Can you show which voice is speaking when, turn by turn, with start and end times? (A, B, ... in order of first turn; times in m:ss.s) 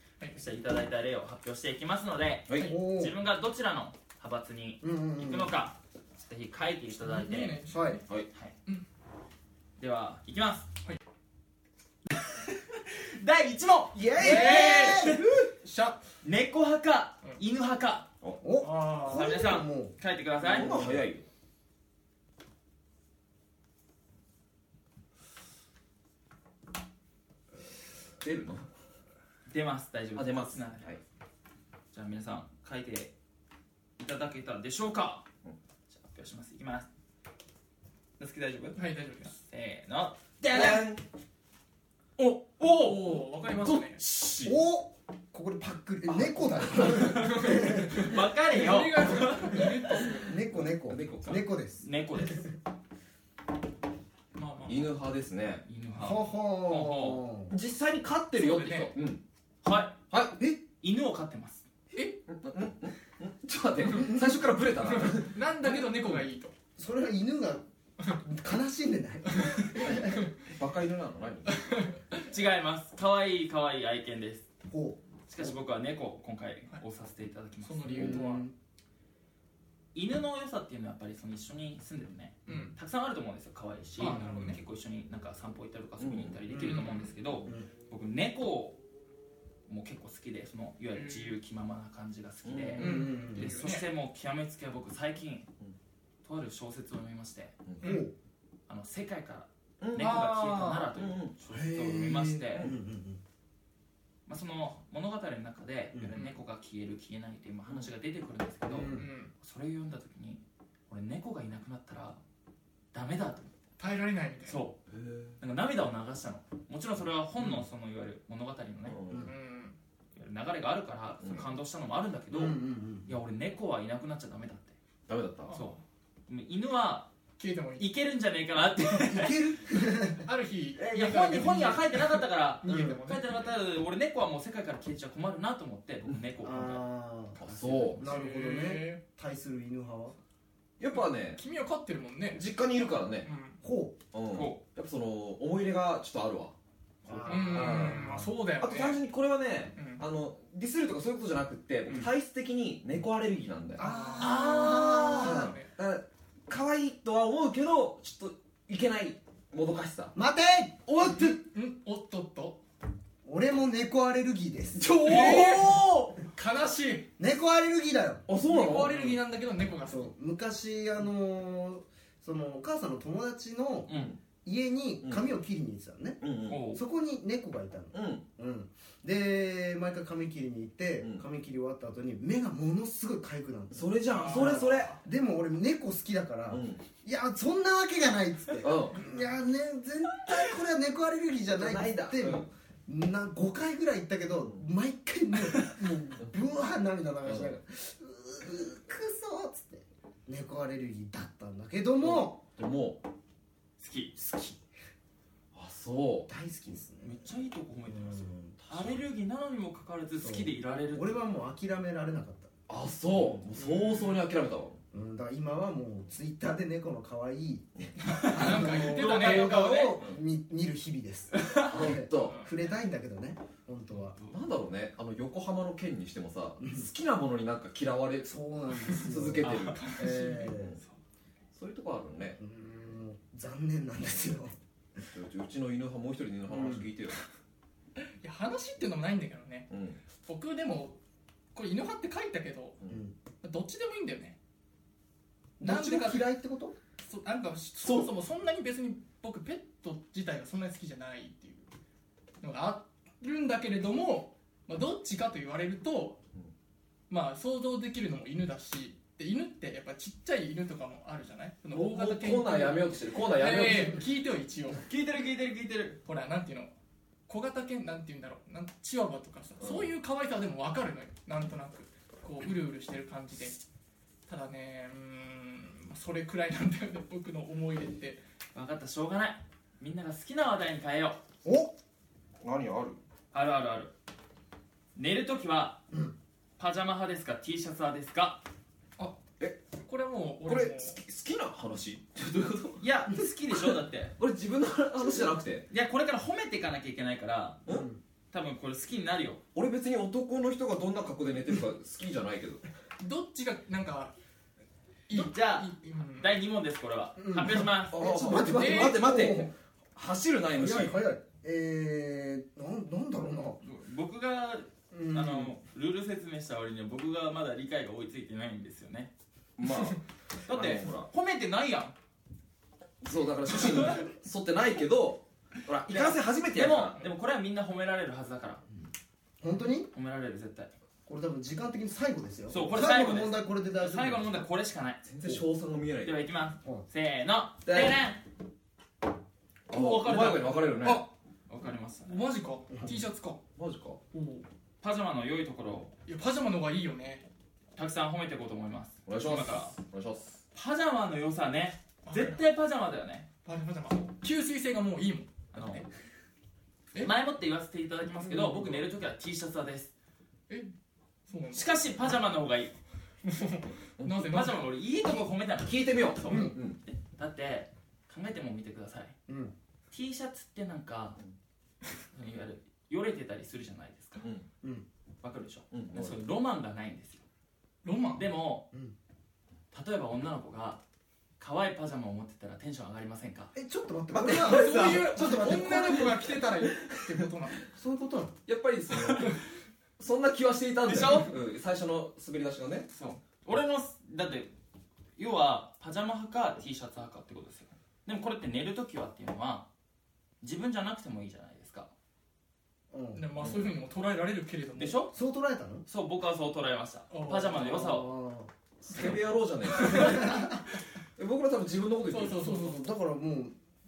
0:00.3-0:07.6 A
0:02.6-0:03.1 B
0:04.8-0:05.5 B
0:07.0-0:08.0 C
0:07.7-0:08.0 B
0:09.8-0:10.7 A
0:12.3-0:15.2 A
0:14.0-0:15.5 D
0:14.2-0:15.2 B
0:14.2-0:16.0 C
0:16.2-0:18.1 A
0:18.4-0:19.9 B
0:18.6-0:19.3 C
0:19.1-0:21.0 A
0:20.4-0:21.3 D
0:20.6-0:20.9 B
0:28.2-0:28.7 D
0:29.5-0:31.0 A
0:30.2-0:31.0 D
0:31.9-0:33.1 A
0:34.0-0:35.3 A
0:35.9-0:36.9 A
0:38.2-0:38.8 A
0:38.8-0:39.4 C
0:39.4-0:40.9 A
0:40.5-0:41.0 D
0:42.5-0:44.0 C
0:43.5-0:44.6 D
0:44.4-0:48.1 B
0:46.9-0:50.1 A
0:47.0-0:50.4 C
0:50.2-0:52.5 B
0:50.9-0:51.4 D
0:51.2-0:52.5 A
0:54.4-0:54.9 C
0:54.7-0:55.6 D
0:55.6-0:57.2 A
0:56.0-0:57.6 B
0:57.5-0:59.2 D
0:58.4-0:59.0 C
0:59.6-1:00.0 A
1:00.1-1:00.4 D
1:00.8-1:01.7 A
1:01.9-1:02.2 C
1:02.3-1:05.4 D
1:04.9-1:06.5 C
1:06.8-1:10.2 B
1:09.3-1:10.3 C
1:09.8-1:11.6 D
1:11.5-1:12.2 C
1:12.3-1:14.5 A
1:14.7-1:15.6 B
1:15.3-1:18.3 A
1:17.6-1:18.4 C
1:17.9-1:18.5 B
1:19.9-1:28.8 A
1:22.5-1:22.7 C
1:24.0-1:24.6 C
1:26.0-1:26.4 D
1:26.5-1:26.9 B
1:26.6-1:27.1 C
1:29.7-1:35.5 A
1:30.9-1:31.4 C
1:32.4-1:33.0 D
1:32.8-1:33.6 B
1:32.8-1:33.9 C
1:36.2-1:37.6 A
1:37.6-1:37.9 D
1:37.8-1:38.1 C
1:37.8-1:38.1 B
1:38.7-1:42.7 A
1:39.8-1:41.3 D
1:41.5-1:43.2 B
1:44.3-1:52.2 A
1:45.9-1:46.2 B
1:48.7-1:49.1 B
1:48.9-1:49.3 C
1:52.9-1:53.5 A
1:53.8-1:54.6 C
1:54.5-1:54.8 A
1:54.9-1:55.4 D
1:55.4-1:59.0 A
1:58.8-1:59.3 D
1:59.2-1:59.8 C
2:00.2-2:04.8 A
2:01.2-2:01.5 D
2:02.3-2:03.1 B
2:05.1-2:05.6 D
2:05.5-2:05.8 C
2:05.5-2:07.1 A
2:07.4-2:07.9 C
2:07.8-2:09.5 A
2:08.9-2:10.3 B
2:10.2-2:13.4 C
2:10.8-2:16.9 A
2:12.6-2:13.0 B
2:16.4-2:17.4 B
2:17.4-2:18.0 A
2:17.4-2:18.0 D
2:18.0-2:20.2 B
2:18.0-2:19.0 C
2:20.8-2:21.4 D
2:20.9-2:23.6 C
2:22.3-2:23.3 D
2:23.6-2:24.0 B
2:24.1-2:26.6 D
2:24.3-2:24.6 A
2:27.0-2:28.3 B
2:27.1-2:33.8 D
2:27.3-2:29.0 C
2:29.8-2:30.0 C
2:33.8-2:35.6 B
2:33.8-2:35.7 C
2:34.2-2:35.4 A
2:35.2-2:40.1 D
2:40.1-2:41.3 B
2:40.9-2:41.4 D
2:41.0-2:42.6 C
2:43.2-2:45.4 B
2:44.8-2:47.1 C
2:44.9-2:45.9 D
2:47.2-2:48.3 B
2:48.3-2:49.1 D
2:48.4-2:50.1 C
2:48.9-2:49.2 B
2:49.8-2:53.9 B
2:53.9-2:54.2 A
2:53.9-2:54.2 D
2:54.4-3:22.4 B
2:56.2-2:56.6 D
2:56.5-2:56.8 A
2:57.9-2:58.2 D
3:03.7-3:05.0 D
3:04.1-3:05.0 C
3:06.5-3:06.8 D
3:08.6-3:09.0 D
3:08.9-3:09.4 C
3:11.6-3:12.5 D
3:17.2-3:17.6 D
3:22.0-3:23.0 D
3:23.8-3:24.1 A
3:24.2-3:24.6 B
3:25.5-3:26.3 D
3:26.3-3:27.2 B
3:27.0-3:31.2 A
3:27.9-3:28.6 B
3:28.6-3:29.0 D
3:30.2-3:32.5 B
3:32.7-3:34.8 D
3:33.6-3:34.2 C
3:34.9-3:44.2 B
3:38.0-3:39.7 C
3:38.1-3:40.0 A
3:39.9-3:40.2 D
3:41.3-3:41.8 A
3:41.6-3:42.4 D
3:42.1-3:42.5 C
3:44.0-3:44.3 A
3:44.3-3:49.8 D
3:46.6-3:46.9 B
3:48.2-3:50.8 B
3:49.4-3:50.0 A
3:49.7-3:51.0 C
3:51.5-3:52.4 D
3:52.4-3:55.1 B
3:55.1-3:57.2 D
3:56.5-3:56.9 B
3:58.2-3:59.7 C
3:59.7-4:00.0 D
4:00.2-4:01.0 C
4:01.5-4:02.8 C
4:02.9-4:03.1 B
4:03.4-4:04.4 C
4:05.6-4:06.8 B
4:05.6-4:06.3 C
4:07.0-4:11.7 C
4:07.8-4:08.1 D
4:12.4-4:16.2 C
4:17.1-4:24.8 C
4:21.7-4:24.0 D
4:24.8-4:26.0 A
4:26.0-4:26.7 C
4:27.3-4:33.6 C
4:29.6-4:29.9 D
4:34.3-4:38.2 C
4:38.5-4:41.2 A
4:41.4-4:41.7 B
4:42.4-4:43.0 D
4:43.3-4:43.9 A
4:45.0-4:45.8 A
4:46.6-4:48.4 A
4:49.8-4:51.0 C
4:50.5-4:52.8 D
4:52.8-4:54.2 A
4:54.2-4:55.7 D
4:55.7-4:57.6 A
4:57.7-4:58.0 B
4:58.3-4:59.4 A
4:59.6-5:02.6 D
5:03.0-5:04.1 C
5:05.1-5:06.3 C
5:05.1-5:08.1 A
5:07.2-5:09.5 B
5:07.9-5:11.0 D
5:08.4-5:09.1 C
5:10.5-5:13.6 B
5:13.6-5:19.1 A
5:14.9-5:15.5 B
5:19.6-5:21.1 D
5:20.5-5:22.0 A
5:23.0-5:27.0 D
5:25.9-5:28.6 A
5:29.4-5:29.9 B
5:29.9-5:30.7 A
5:31.1-5:34.4 B
5:32.5-5:35.0 A
5:35.0-5:36.2 D
5:36.0-5:38.2 A
5:37.6-5:38.0 D
5:39.7-5:41.0 D
5:39.7-5:40.8 A
5:40.8-5:41.1 C
5:41.5-5:42.2 A
5:42.1-5:43.4 C
5:43.6-5:44.0 D
5:44.1-5:44.5 C
5:44.8-5:45.9 A
5:46.1-5:47.3 C
5:47.8-5:49.8 A
5:49.1-5:50.4 D
5:50.5-5:53.3 A
5:52.0-5:52.4 C
5:53.4-5:55.9 C
5:55.5-5:55.9 A
5:57.0-5:59.9 A
6:01.3-6:01.7 C
6:01.5-6:02.8 A
6:03.2-6:04.7 C
6:04.0-6:04.3 D
6:04.2-6:09.2 A
6:05.6-6:06.8 D
6:06.3-6:06.6 B
6:09.3-6:09.5 B
6:09.9-6:11.2 A
6:12.1-6:14.3 A
6:14.2-6:14.5 D
6:15.2-6:17.2 A
6:15.7-6:16.2 D
6:17.8-6:18.3 C
6:18.2-6:18.7 A
6:19.7-6:20.8 A
6:21.4-6:23.5 A
6:23.6-6:26.3 B
6:24.1-6:27.0 D
6:24.3-6:27.6 C
6:27.7-6:28.3 B
6:28.5-6:29.4 D
6:29.0-6:29.3 A
6:30.0-6:32.9 D
6:30.9-6:31.3 A
6:32.9-6:34.5 A
6:35.2-6:39.7 A
6:40.4-6:41.9 A
6:42.9-6:43.2 B
6:43.2-6:45.0 C
6:43.4-6:43.7 D
6:44.8-6:45.1 A
6:45.1-6:45.8 B
6:45.9-6:48.1 A
6:47.1-6:47.6 C
6:47.4-6:48.5 B
6:48.8-6:50.5 D
6:49.7-6:50.0 A
6:49.9-6:50.6 B
6:51.2-6:52.5 D
6:52.1-6:52.9 C
6:52.4-6:53.6 B